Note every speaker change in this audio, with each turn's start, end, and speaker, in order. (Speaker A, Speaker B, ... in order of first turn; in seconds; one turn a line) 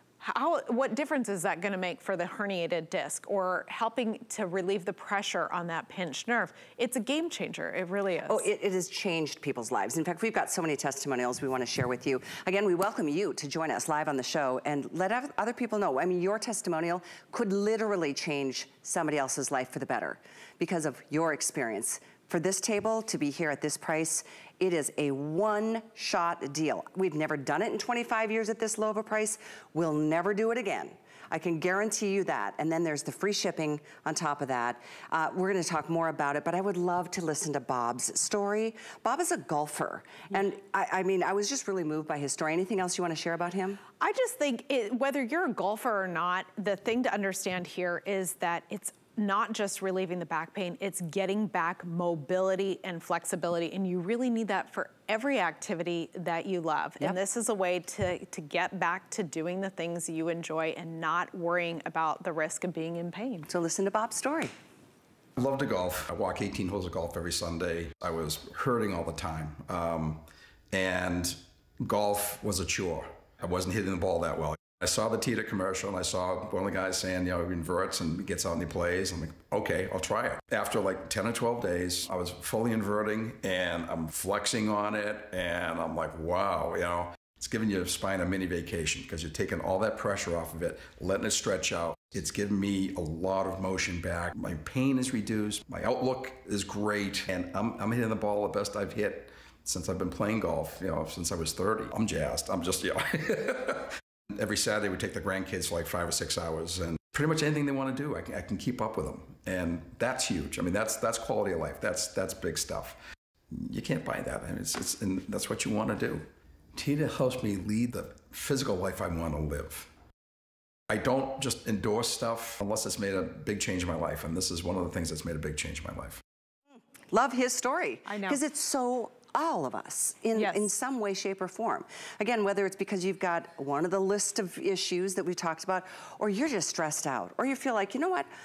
Speaker A: 0.2-8.4
Speaker B: 8.3-43.8
Speaker A: 44.0-63.5
Speaker B: 63.5-64.5
Speaker C: 65.4-113.0
Speaker C: 113.5-119.9
Speaker C: 120.9-126.2
Speaker B: 127.1-138.3
Speaker A: 128.1-128.4
Speaker A: 130.3-130.7